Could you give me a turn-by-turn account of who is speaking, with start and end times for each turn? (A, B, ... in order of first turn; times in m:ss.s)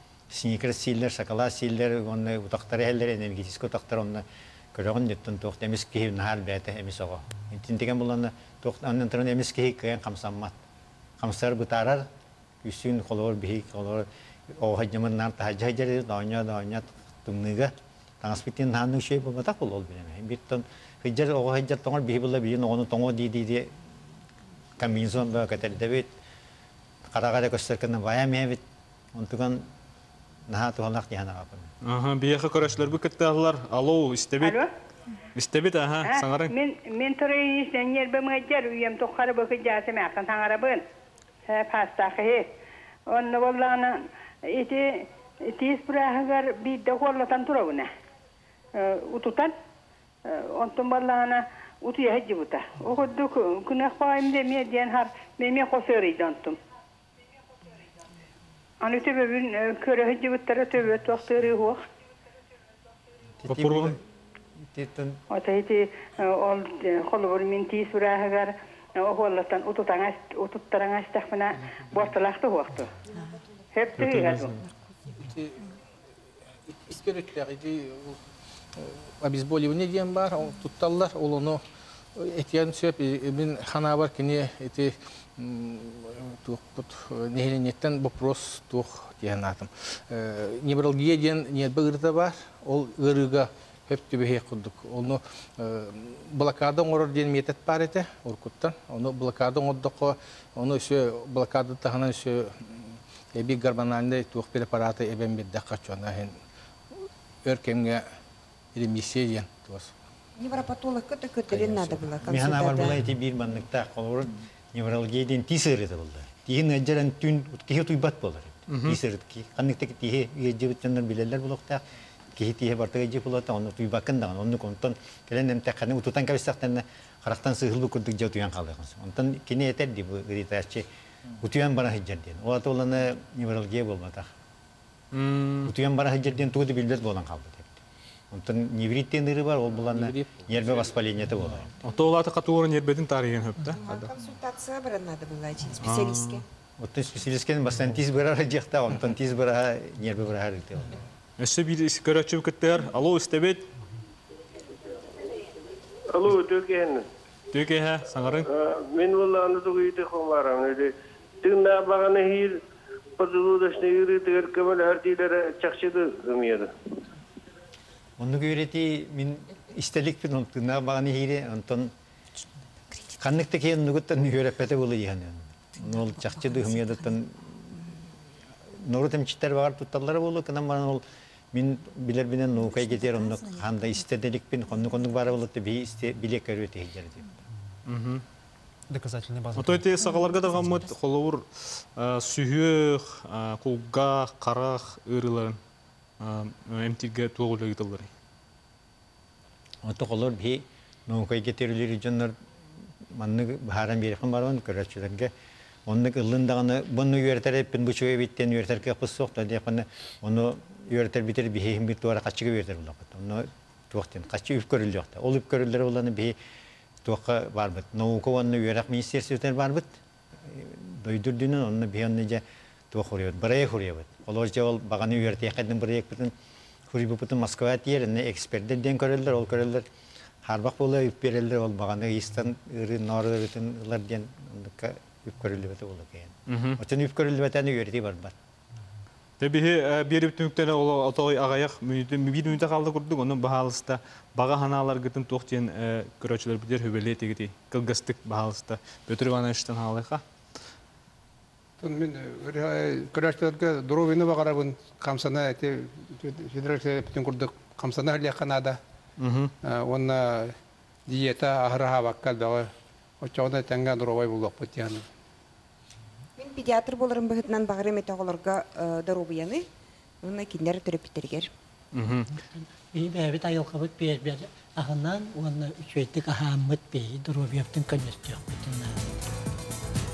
0:00.3-0:10.5 A
0:11.2-0:12.1 A
0:12.6-0:23.8 A
0:24.8-0:26.1 A
0:27.1-0:28.6 A
0:29.1-0:29.7 A
0:30.5-0:31.7 A
0:31.8-0:34.6 B
0:34.4-0:34.7 C
0:35.3-0:36.5 B
0:36.0-0:40.8 C
0:41.5-0:42.5 C
0:43.1-0:47.9 C
0:48.7-0:49.5 C
0:50.2-0:56.6 C
0:58.8-1:01.8 C
1:03.4-1:04.0 A
1:03.5-1:04.0 B
1:04.7-1:05.2 A
1:05.3-1:12.9 C
1:11.7-1:12.1 D
1:13.7-1:14.5 C
1:14.0-1:14.6 B
1:15.1-1:15.6 D
1:16.7-1:18.2 D
1:18.8-1:21.6 D
1:22.2-1:46.3 D
1:47.4-1:48.0 D
1:48.7-1:49.9 D
1:50.4-1:53.0 E
1:51.5-1:52.1 D
1:52.3-2:01.8 A
1:58.7-1:59.0 B
2:02.4-2:10.8 A
2:11.4-2:14.3 A
2:15.1-2:15.7 B
2:15.6-2:17.8 A
2:18.3-2:21.7 A
2:19.7-2:21.6 D
2:21.8-2:23.8 B
2:23.8-2:26.4 E
2:25.8-2:26.4 B
2:26.8-2:31.0 A
2:31.4-2:33.7 B
2:36.1-2:37.0 F
2:37.5-2:38.5 B
2:38.5-2:40.9 F
2:41.4-2:42.6 F
2:43.2-2:46.7 F
2:48.2-2:51.9 A
2:53.2-2:57.6 A
2:58.8-3:07.4 A
3:07.8-3:08.2 B
3:08.9-3:10.9 G
3:09.5-3:15.6 B
3:16.2-3:18.1 B
3:19.8-3:22.3 A
3:23.1-3:25.3 A
3:25.9-3:36.3 A
3:37.0-3:46.3 A
3:46.9-3:49.8 A
3:50.4-3:58.3 A
3:56.5-3:56.8 B
3:59.4-4:10.2 B
4:11.8-4:18.8 H
4:19.2-4:19.5 B
4:19.6-4:20.6 H
4:21.1-4:25.0 H
4:26.4-4:29.6 E
4:30.2-4:31.5 E
4:31.9-4:32.3 B
4:32.3-4:39.2 I